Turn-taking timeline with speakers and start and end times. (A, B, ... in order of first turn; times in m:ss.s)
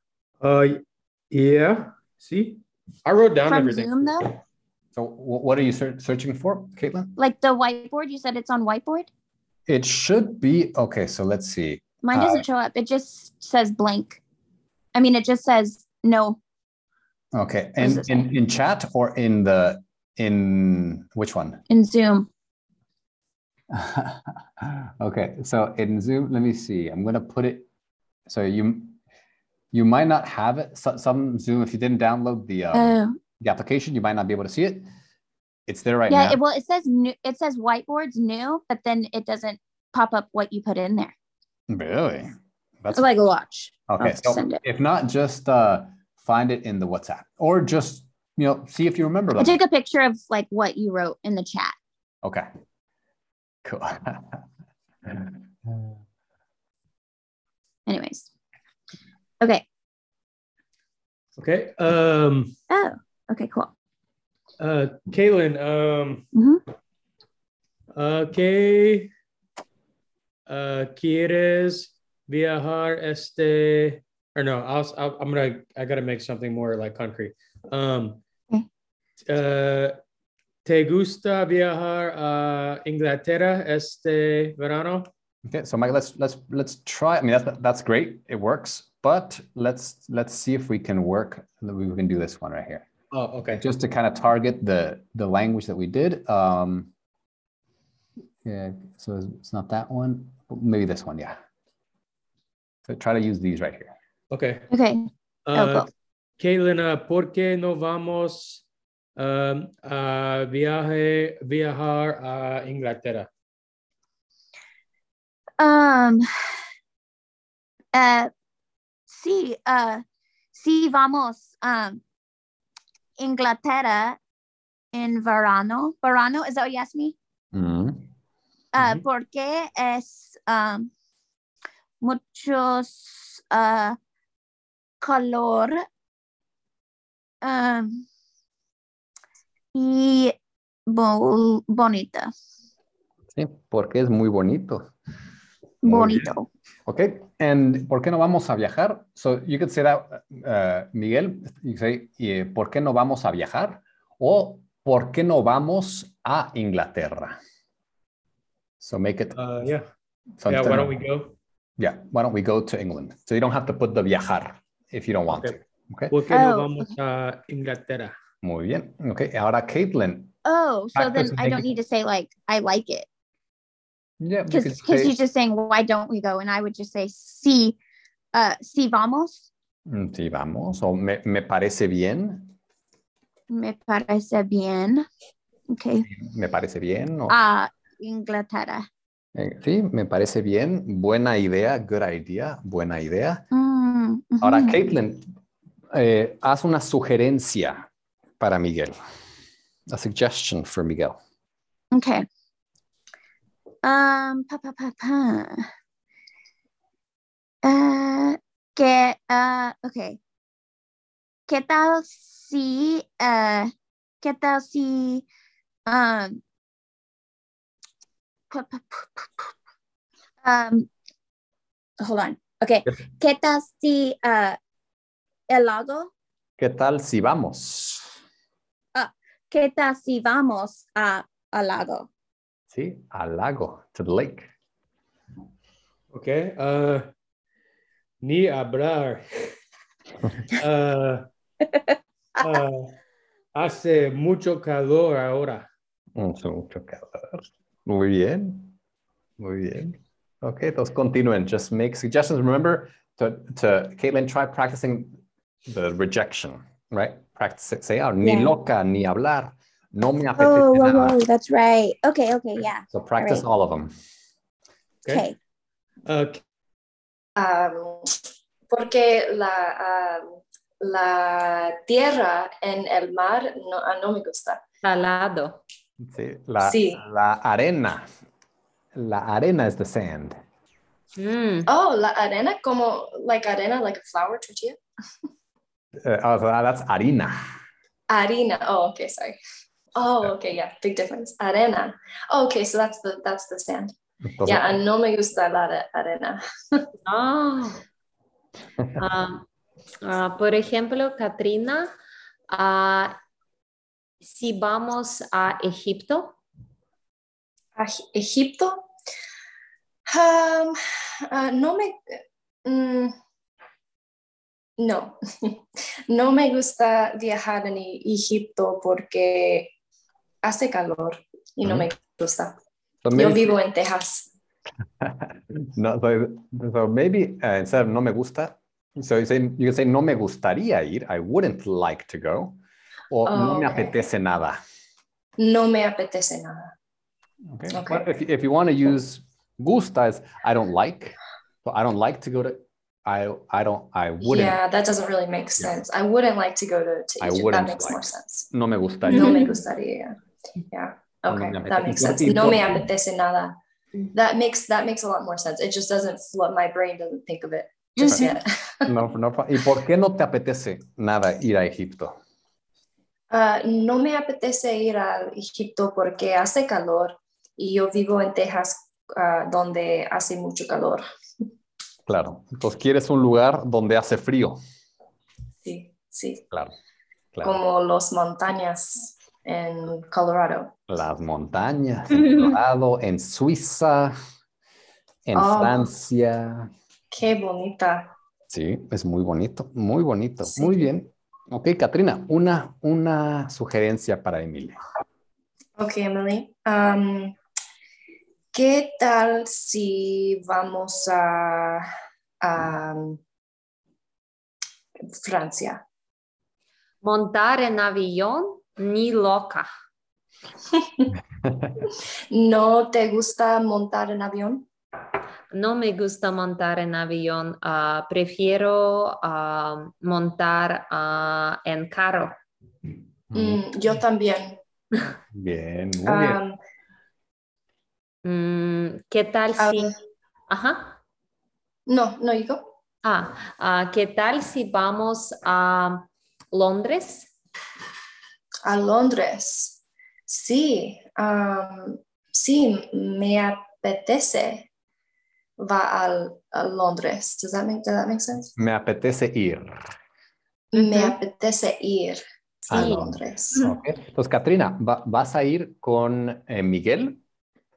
0:00.4-0:04.3 A
0:03.5-0:04.3 B
0:04.9-0:07.1 C
0:07.2-0:09.1 B
0:09.7-0:12.4 C
0:12.0-0:14.2 B
0:14.9-0:16.4 B
0:17.3-0:21.6 C
0:17.8-0:18.3 B
0:21.7-0:22.3 B
0:23.7-0:27.7 C
0:28.3-0:29.0 C
0:29.7-0:34.9 C
0:32.7-0:33.2 B
0:35.7-0:36.4 C
0:36.1-0:41.1 B
0:41.7-0:43.1 C
0:42.9-0:44.6 B
0:43.9-0:49.6 C
0:49.4-0:51.8 B
0:53.6-0:54.4 C
0:55.1-0:55.7 C
0:57.8-0:58.3 B
0:59.4-0:59.6 B
1:01.4-1:02.5 A
1:02.7-1:03.7 B
1:04.6-1:06.2 A
1:06.3-1:06.6 B
1:07.9-1:09.1 A
1:10.5-1:18.2 A
1:19.3-1:20.0 A
1:20.6-1:25.1 A
1:25.5-1:32.9 C
1:33.1-1:33.6 A
1:33.5-1:36.9 C
1:38.4-1:41.4 C
1:42.9-1:43.9 C
1:44.3-1:44.7 A
1:44.7-1:45.9 B
1:45.5-1:48.6 A
1:49.2-1:53.3 A
1:55.6-1:56.3 B
1:57.9-1:58.3 B
1:59.1-2:00.0 B
2:00.5-2:02.0 B
2:03.2-2:04.2 B
2:04.9-2:07.2 B
2:07.5-2:08.1 C
2:08.7-2:10.9 B
2:08.8-2:09.0 A
2:12.0-2:14.0 B
2:15.0-2:15.8 B
2:17.4-2:18.0 B
2:19.7-2:20.4 B
2:20.9-2:22.3 B
2:23.4-2:24.9 C
2:25.8-2:26.5 B
2:25.8-2:26.3 C
2:26.8-2:37.4 C
2:38.8-2:39.4 C
2:39.3-2:39.8 A
2:40.4-2:41.0 C
2:40.5-2:41.3 A
2:41.8-2:46.2 C
2:45.3-2:45.5 A
2:46.1-2:48.1 A
2:46.3-2:46.9 B
2:48.4-2:50.3 C
2:50.4-2:53.1 B
2:50.9-2:51.7 C
2:54.2-2:55.2 C
2:54.5-2:57.8 B
2:58.3-2:59.4 B
2:59.9-3:02.6 C
3:03.5-3:05.1 B
3:05.7-3:06.1 B
3:06.1-3:07.4 C
3:07.3-3:08.9 B
3:09.3-3:13.4 C
3:13.5-3:14.8 B
3:14.4-3:15.3 C
3:15.9-3:17.9 C
3:18.4-3:19.0 C
3:19.9-3:21.2 C
3:21.9-3:22.2 B
3:23.8-3:25.7 B
3:27.6-3:30.2 B
3:31.5-3:35.2 B
3:35.8-3:36.4 B
3:38.5-3:39.5 B
3:40.4-3:40.9 B
3:42.0-3:44.6 B
3:45.5-3:46.1 B
3:46.6-3:48.1 C
3:48.9-3:52.1 B
3:52.7-3:54.5 C
3:56.1-3:57.1 A
3:58.2-3:59.2 A
4:00.5-4:01.3 A
4:02.4-4:03.0 A
4:03.5-4:05.6 A
4:06.2-4:08.8 C
4:09.4-4:21.2 C
4:18.2-4:18.5 B
4:20.4-4:23.4 B
4:22.9-4:23.9 C
4:25.1-4:25.4 B
4:26.0-4:26.4 A
4:27.4-4:28.2 D
4:28.7-4:34.6 D
4:34.8-4:35.6 E
4:36.0-4:38.0 C
4:36.6-4:37.0 D
4:38.9-4:40.3 C
4:41.2-4:41.7 E
4:41.7-4:44.8 D
4:46.0-4:47.4 C
4:48.1-4:49.4 D
4:49.9-4:53.9 D
4:54.2-4:54.8 C
4:54.4-4:56.9 D
4:57.0-4:57.8 E
4:59.0-4:59.4 E
5:00.0-5:01.9 E
5:02.5-5:03.2 E
5:04.2-5:06.3 E
5:07.8-5:08.8 D
5:10.1-5:10.8 D
5:11.3-5:12.0 D
5:12.6-5:13.1 D
5:14.8-5:19.7 D
5:20.4-5:22.5 D
5:21.6-5:21.9 C
5:23.0-5:23.5 C
5:23.1-5:24.3 D
5:25.0-5:32.6 C
5:33.1-5:34.6 C
5:33.3-5:33.9 D
5:35.4-5:36.7 D
5:37.5-5:44.6 C
5:37.7-5:38.0 D
5:44.2-5:48.5 D
5:47.2-5:49.4 C
5:49.1-5:50.2 D
5:49.2-5:49.4 E
5:50.7-5:53.6 D
5:51.3-5:52.9 C
5:54.1-5:58.9 D
5:58.0-5:58.3 B
5:58.8-6:02.2 C
6:03.3-6:11.0 D
6:12.0-6:14.6 C
6:15.6-6:16.4 D
6:17.3-6:17.6 C
6:17.4-6:20.7 D
6:20.9-6:24.2 C
6:25.2-6:26.7 C
6:25.4-6:25.9 D
6:27.1-6:28.1 D
6:28.5-6:34.8 C
6:30.6-6:30.9 D
6:35.8-6:37.4 D
6:38.5-6:41.8 D
6:42.4-6:43.2 D
6:45.1-6:45.8 D
6:47.0-6:49.7 E
6:50.7-6:51.1 D
6:51.4-6:51.8 C
6:52.3-6:54.6 D
6:55.5-7:02.4 E
7:03.3-7:03.6 C
7:03.3-7:04.6 D
7:05.3-7:06.4 C
7:06.0-7:06.6 D
7:08.2-7:09.9 E
7:09.6-7:09.9 D
7:10.5-7:11.0 E
7:11.9-7:12.6 D
7:13.0-7:17.3 E
7:18.6-7:19.8 D
7:20.3-7:24.6 D
7:25.6-7:28.5 D
7:28.6-7:29.8 C
7:30.7-7:33.6 D
7:30.7-7:31.2 E
7:32.7-7:37.2 C
7:32.7-7:33.0 E